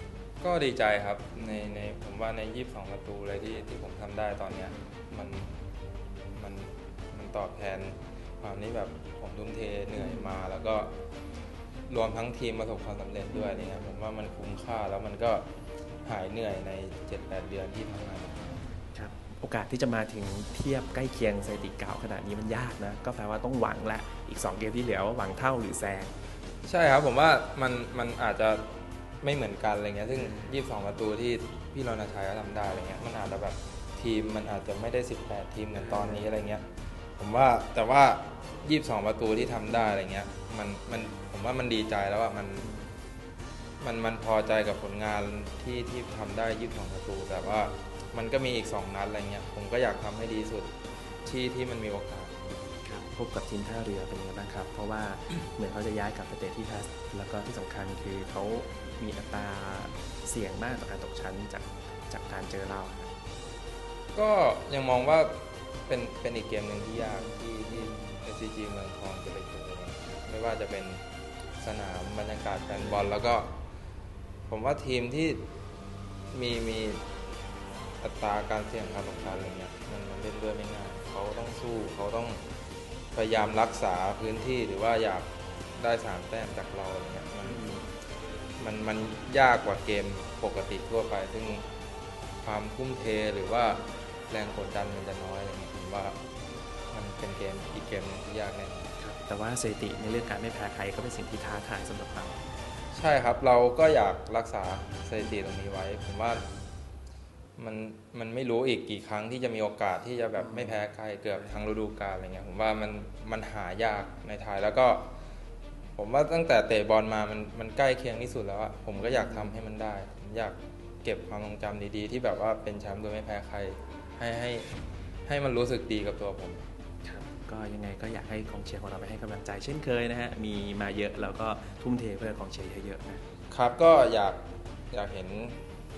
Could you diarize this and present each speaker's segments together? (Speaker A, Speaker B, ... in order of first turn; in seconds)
Speaker A: 0.4-5.5, 6.3-10.9, 11.9-15.4, 16.1-18.5, 26.6-28.7, 29.2-36.6, 37.2-42.7, 43.8-52.6, 64.2-71.0, 71.6-73.5, 74.5-75.5, 76.3-77.0, 78.0-82.4, 83.1-87.8, 88.6-91.7, 92.4-96.2, 96.9-98.9, 102.9-106.5, 107.6-115.1, 116.0-124.7, 125.3-126.6, 133.5-134.4, 134.9-135.6
Speaker B: 10.0-10.4, 13.3-13.8, 18.9-26.1, 30.1-30.6, 35.8-36.3, 42.6-42.9, 52.9-63.1, 67.9-68.2, 87.4-87.9, 99.0-102.4, 110.4-110.8, 119.0-119.6, 127.0-133.2